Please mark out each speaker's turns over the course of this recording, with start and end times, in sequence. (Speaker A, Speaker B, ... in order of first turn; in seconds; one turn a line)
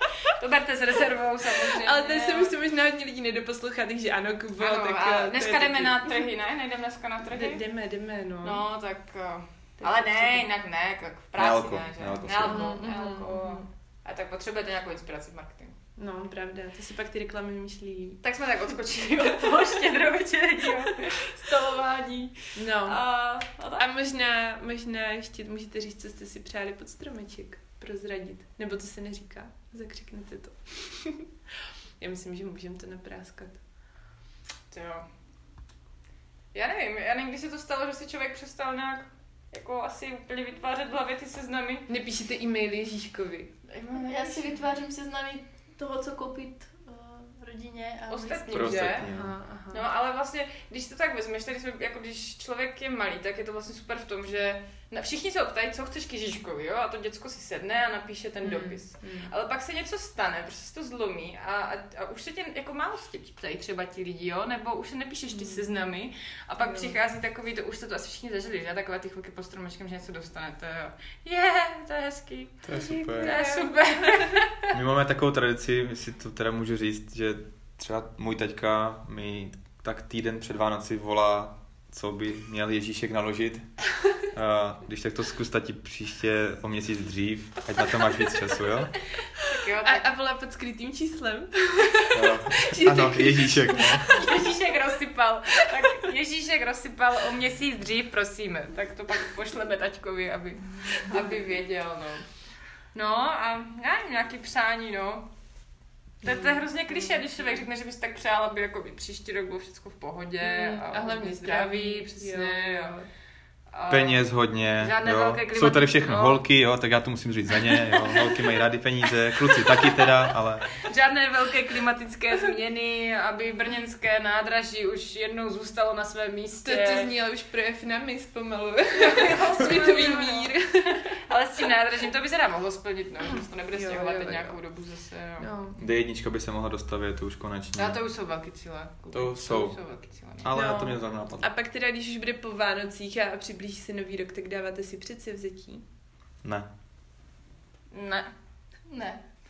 Speaker A: 0.2-2.5
Speaker B: 1.6-6.2
Speaker A: 4.6-7.6
Speaker B: 7.3-8.6
Speaker A: 8.4-15.8
Speaker B: 9.8-10.4
Speaker C: 11.4-12.8
Speaker B: 12.5-13.7
Speaker B: 16.0-18.2
Speaker A: 18.2-23.9
Speaker B: 22.5-23.0
Speaker B: 23.8-31.3
Speaker B: 32.0-33.6
Speaker A: 34.7-35.1
Speaker A: 36.5-41.9
Speaker B: 41.9-43.5
Speaker A: 43.7-44.5
Speaker D: 44.0-48.7
Speaker A: 48.1-49.1
Speaker C: 48.5-49.3
Speaker B: 49.1-49.8
Speaker A: 49.7-74.7
Speaker B: 58.4-59.3
Speaker B: 65.3-65.8
Speaker B: 66.6-67.0
Speaker C: 72.7-73.3
Speaker B: 72.8-74.4
Speaker C: 74.7-89.0
Speaker B: 89.4-94.5
Speaker A: 89.4-90.1
Speaker C: 92.1-94.2
Speaker A: 94.0-102.3
Speaker A: 102.9-105.3
Speaker A: 106.2-113.0
Speaker B: 106.3-107.2
Speaker B: 110.4-113.1
Speaker A: 113.7-116.4
Speaker C: 113.9-120.8
Speaker A: 117.6-118.4
Speaker A: 119.7-120.1
Speaker A: 120.8-127.1
Speaker B: 126.6-131.1
Speaker A: 129.0-130.6
Speaker A: 131.1-135.5
Speaker B: 133.7-134.6
Speaker B: 135.4-135.8
Speaker C: 135.8-138.0
Speaker A: 137.8-140.5
Speaker C: 139.1-139.8
Speaker C: 140.4-141.5
Speaker B: 140.5-145.8
Speaker A: 147.9-148.3
Speaker D: 148.9-149.2